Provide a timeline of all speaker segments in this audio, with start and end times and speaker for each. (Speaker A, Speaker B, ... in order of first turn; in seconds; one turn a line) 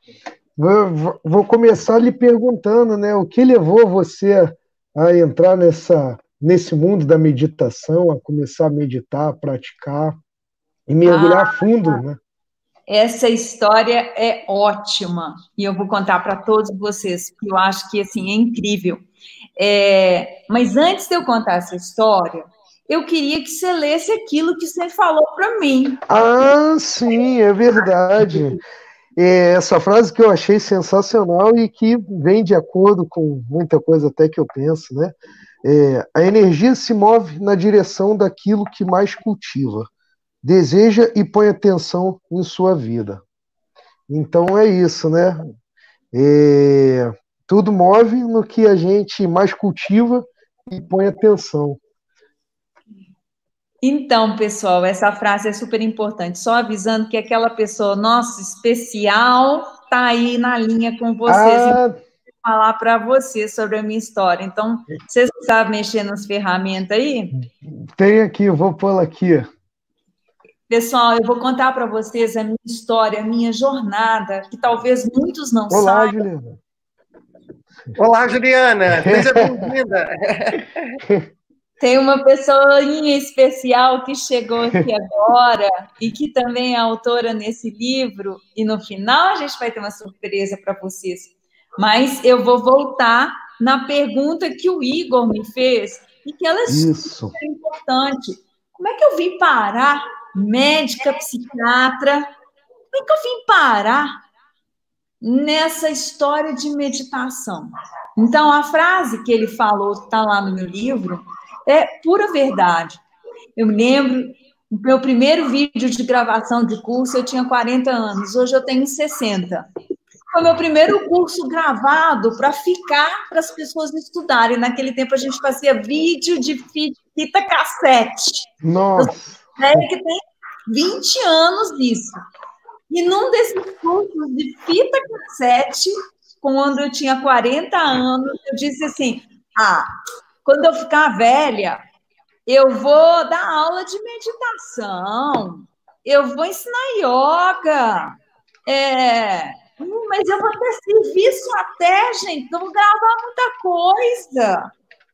Speaker A: 0.6-10.2
Speaker A: 10.9-12.2
Speaker B: 11.1-12.0
Speaker B: 12.9-19.0
Speaker B: 19.6-26.0
Speaker A: 26.1-28.6
Speaker A: 29.2-39.9
Speaker A: 40.4-43.2
Speaker A: 44.1-45.4
Speaker A: 46.1-51.8
Speaker B: 53.8-61.8
Speaker A: 61.3-62.0
Speaker B: 62.4-67.3
Speaker A: 67.4-69.5
Speaker B: 70.7-76.2
Speaker A: 75.7-76.6
Speaker C: 78.0-81.0
Speaker A: 79.0-79.7
Speaker B: 81.8-102.3
Speaker A: 96.7-97.3
Speaker B: 102.9-104.2
Speaker B: 105.2-113.0
Speaker B: 113.6-119.7
Speaker B: 120.3-132.2
Speaker A: 128.6-129.8
Speaker B: 132.9-139.9
Speaker B: 140.4-141.8
Speaker B: 142.5-148.2
Speaker B: 148.7-154.7